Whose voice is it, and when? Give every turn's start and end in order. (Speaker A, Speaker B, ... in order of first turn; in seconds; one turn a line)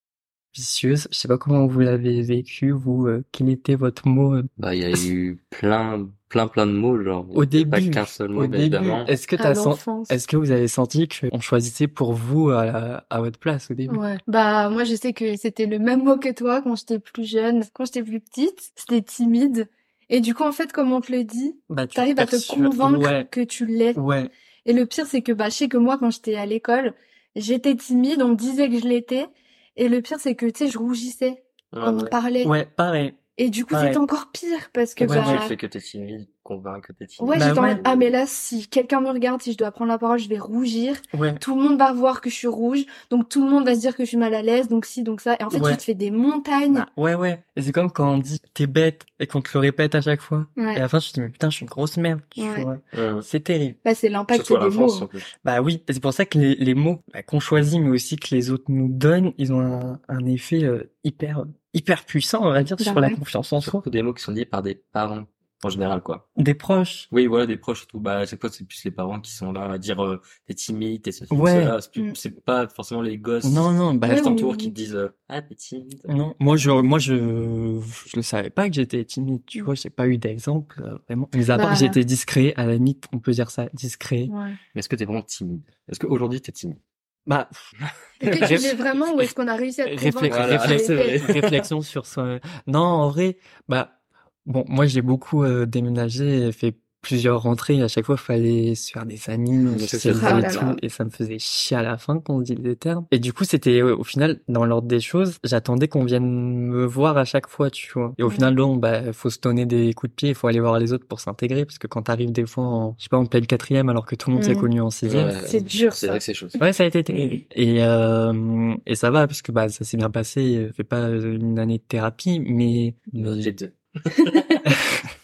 Speaker A: 0.5-4.5
Speaker B: 4.6-9.1
Speaker A: 7.3-14.0
Speaker C: 9.4-10.2
Speaker C: 13.9-24.0
Speaker A: 21.7-23.3
Speaker A: 23.9-24.3
Speaker C: 24.6-32.5
Speaker B: 31.7-32.1
Speaker A: 32.4-33.2
Speaker C: 33.4-35.5
Speaker A: 33.7-34.0
Speaker B: 35.0-38.1
Speaker A: 35.0-35.4
Speaker C: 37.2-46.9
Speaker A: 37.4-37.8
Speaker A: 41.1-41.4
Speaker A: 45.5-45.8
Speaker A: 46.7-53.8
Speaker C: 50.6-50.8
Speaker C: 52.4-52.7
Speaker B: 52.9-53.3
Speaker C: 53.8-55.1
Speaker B: 54.3-55.3
Speaker A: 55.5-63.8
Speaker C: 62.8-63.2
Speaker B: 63.6-66.2
Speaker A: 66.4-67.1
Speaker B: 67.1-76.1
Speaker A: 71.3-71.8
Speaker A: 73.4-74.4
Speaker C: 74.1-74.8
Speaker A: 76.1-84.3
Speaker C: 81.5-82.0
Speaker C: 84.3-84.6
Speaker B: 84.7-86.8
Speaker A: 87.3-87.7
Speaker B: 87.8-89.2
Speaker C: 88.2-91.3
Speaker A: 88.3-88.8
Speaker A: 89.8-94.0
Speaker B: 90.3-91.7
Speaker A: 94.5-115.5
Speaker B: 99.7-100.7
Speaker C: 100.1-100.8
Speaker C: 108.2-108.5
Speaker C: 114.4-114.7
Speaker B: 115.0-116.6
Speaker C: 115.4-116.2
Speaker A: 116.6-123.5
Speaker B: 123.2-124.6